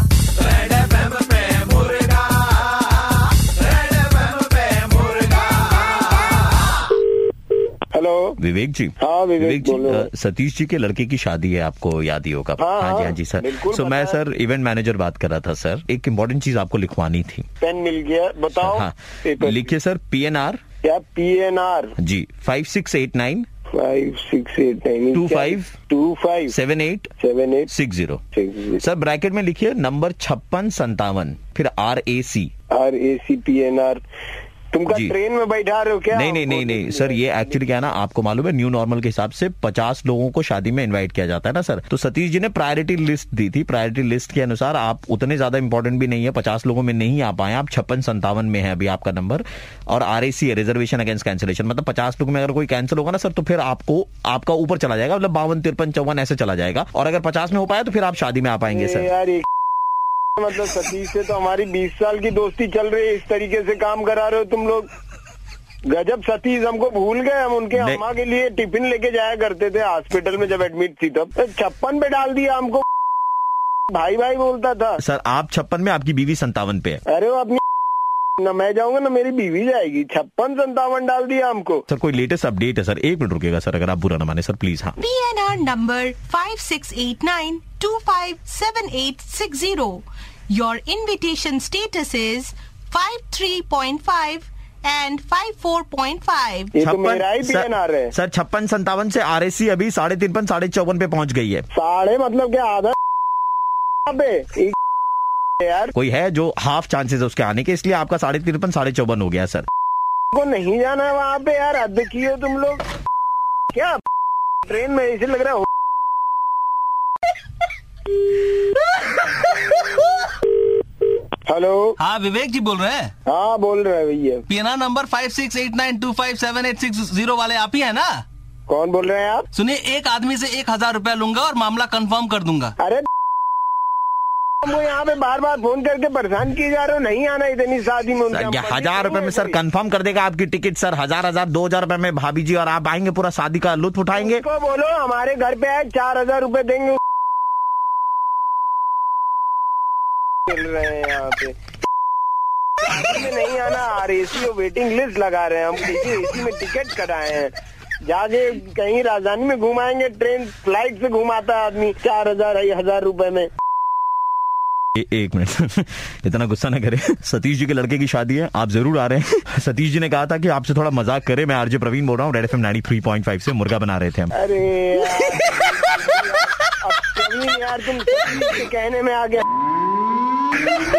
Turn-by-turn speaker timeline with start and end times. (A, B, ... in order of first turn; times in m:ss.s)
0:00.5-0:02.4 A
0:04.2-0:05.4 A
0:07.9-0:08.4 B
0:08.4-0:17.4 A
0:09.0-0:10.1 B
0:12.6-0:14.2 B
0:17.6-0:19.7 B
0:18.6-0:20.6 A
0:20.8-0:21.9 B
0:22.0-0:23.5 A
0:23.7-0:26.5 B
0:25.1-0:25.7 A
0:26.5-0:27.1 A
0:27.2-0:27.7 B
0:27.7-0:28.2 A
0:28.3-0:28.8 B
0:28.8-0:32.5 A
0:32.7-0:34.0 B
0:34.7-0:37.2 B
0:34.9-0:35.1 A
0:36.1-0:59.1 A
0:58.7-0:59.4 B
1:00.4-1:04.9 B
1:05.9-1:12.8 B
1:07.7-1:08.0 A
1:13.9-1:15.0 B
1:15.0-1:17.0 A
1:17.1-1:17.6 B
1:18.4-1:21.8 B
1:21.9-1:25.0 A
1:25.0-1:36.7 C
1:36.7-1:38.1 B
1:36.8-1:41.7 A
1:41.7-1:42.9 B
1:44.0-1:44.7 B
1:45.6-1:45.9 B
1:45.9-1:49.6 A
1:50.3-1:52.8 B
1:53.7-1:54.0 B
1:54.6-1:55.6 B
2:01.4-2:02.0 B
2:02.0-2:03.1 D
2:03.2-2:04.4 B
2:04.5-2:08.2 D
2:08.7-2:09.5 B
2:09.6-2:12.7 D
2:14.6-2:19.6 B
2:18.3-2:24.4 A
2:24.1-2:27.0 B
2:30.5-2:31.5 B
2:32.8-2:37.5 B
2:38.0-2:43.5 B
2:45.0-2:54.3 A
2:54.3-2:59.4 B